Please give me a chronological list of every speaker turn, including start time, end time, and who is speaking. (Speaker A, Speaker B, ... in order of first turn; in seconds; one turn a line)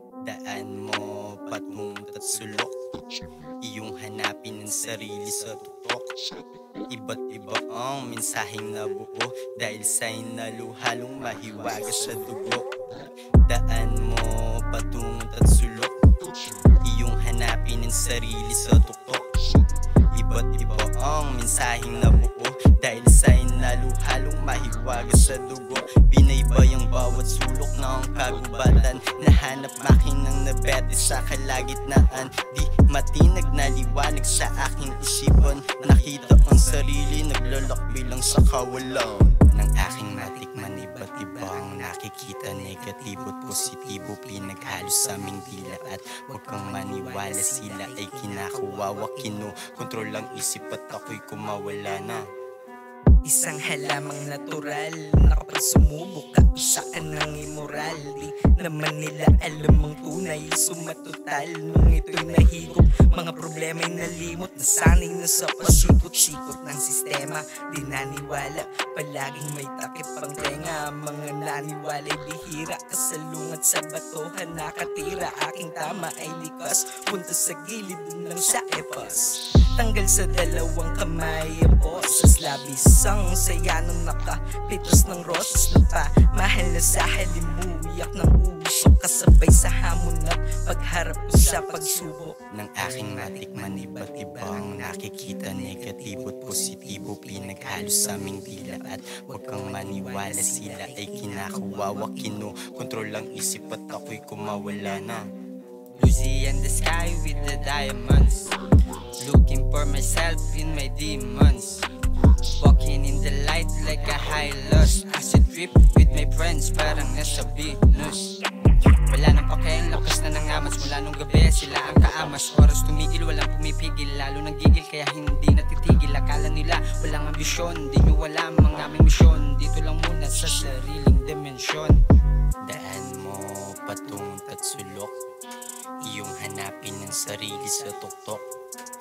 Speaker A: 0.2-2.7
Speaker A: 3.6-6.1
Speaker A: 6.9-12.7
Speaker A: 13.4-15.9
Speaker A: 16.8-19.3
Speaker A: 20.1-52.2
Speaker B: 39.8-50.8
Speaker B: 53.2-102.5
Speaker A: 92.5-105.2
Speaker C: 105.9-108.5
Speaker C: 109.2-111.8
Speaker C: 112.6-118.3
Speaker C: 119.1-132.0
Speaker A: 132.6-135.1
Speaker A: 136.0-138.4
Speaker B: 136.3-138.0